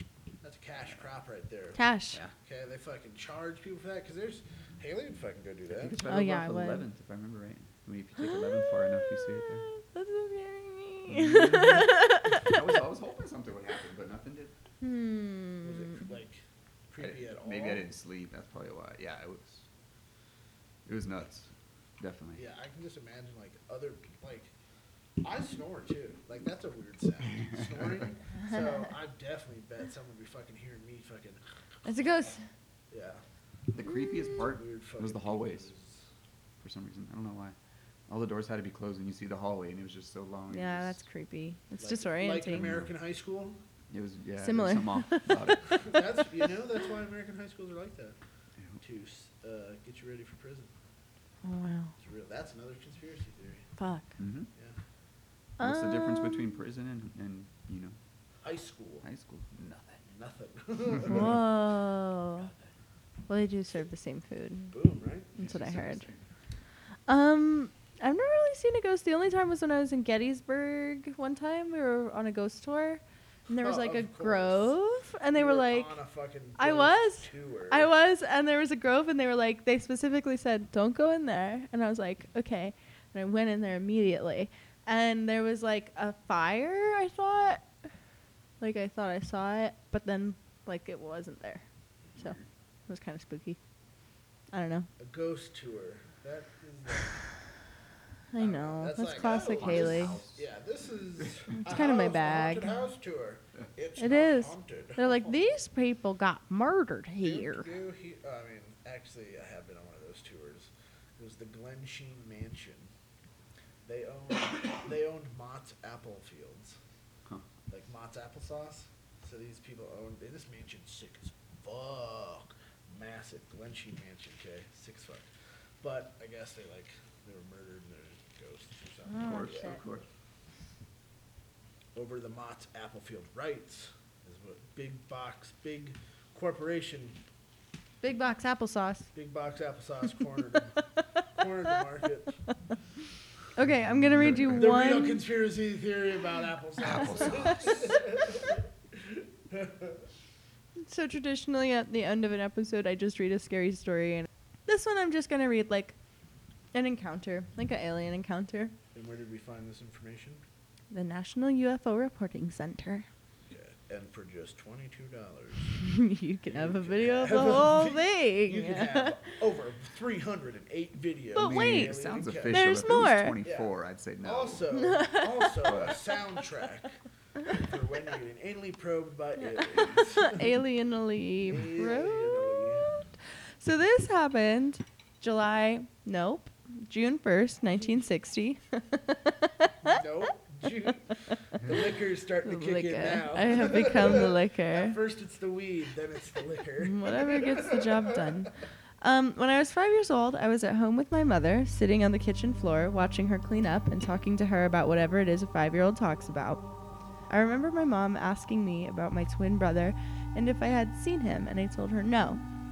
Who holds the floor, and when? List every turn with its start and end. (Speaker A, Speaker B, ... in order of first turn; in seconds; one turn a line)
Speaker A: 0.4-1.8
Speaker B: 1.8-2.2
Speaker A: 2.4-6.0
Speaker C: 5.7-9.7
Speaker B: 6.1-6.8
Speaker B: 8.2-12.5
Speaker C: 11.1-14.5
Speaker B: 14.8-16.0
Speaker A: 15.6-17.9
Speaker C: 17.0-19.7
Speaker C: 20.9-21.5
Speaker C: 22.0-22.4
Speaker A: 22.4-24.5
Speaker A: 25.2-32.0
Speaker C: 27.6-27.8
Speaker B: 31.9-32.4
Speaker A: 32.9-33.2
Speaker C: 33.7-35.7
Speaker A: 34.4-36.0
Speaker C: 36.6-37.6
Speaker C: 38.1-41.0
Speaker B: 40.5-42.7
Speaker A: 41.8-43.6
Speaker C: 42.5-42.9
Speaker C: 43.9-45.8
Speaker B: 44.4-45.3
Speaker A: 45.7-48.2
Speaker A: 48.8-50.7
Speaker B: 51.4-51.9
Speaker A: 52.0-53.7
Speaker B: 53.8-54.1
Speaker C: 54.2-54.5
Speaker B: 55.6-56.5
Speaker C: 55.6-58.0
Speaker A: 58.4-59.0
Speaker C: 59.0-60.0
Speaker A: 60.1-61.4
Speaker C: 61.0-61.3
Speaker B: 61.1-62.5
Speaker B: 63.3-64.7
Speaker A: 64.7-65.5
Speaker B: 65.4-66.1
Speaker C: 65.4-66.2
Speaker B: 67.1-75.9
Speaker A: 73.6-74.8
Speaker A: 75.3-77.9
Speaker B: 76.6-87.7
Speaker B: 88.6-91.7
Speaker B: 92.9-93.6
Speaker B: 94.5-94.9
Speaker A: 95.0-97.2
Speaker B: 98.3-100.2
Speaker A: 98.4-105.6
Speaker C: 99.1-100.5
Speaker B: 101.6-102.7
Speaker B: 104.0-107.7
Speaker A: 107.2-112.9
Speaker A: 113.8-116.8
Speaker A: 117.7-125.3
Speaker A: 125.8-129.8
Speaker B: 129.1-129.8
Speaker C: 129.2-130.1
Speaker A: 131.9-137.2
Speaker B: 138.0-139.1
Speaker A: 139.1-142.4
Speaker B: 143.6-145.2
Speaker C: 144.0-144.6
Speaker A: 144.3-150.0
Speaker C: 146.8-148.1
Speaker B: 150.8-155.9
Speaker B: 156.7-158.8
Speaker A: 158.9-160.4
Speaker B: 160.9-163.1
Speaker A: 163.5-165.8
Speaker B: 165.8-169.2
Speaker A: 166.5-173.7
Speaker B: 171.3-173.4
Speaker C: 171.4-174.7
Speaker A: 174.2-177.0
Speaker B: 174.7-175.6
Speaker C: 175.6-176.0
Speaker A: 177.5-180.6
Speaker B: 179.5-182.8
Speaker A: 181.5-183.0
Speaker B: 183.6-190.0
Speaker A: 189.8-198.3
Speaker B: 192.4-195.0
Speaker B: 196.8-206.6
Speaker B: 207.3-212.4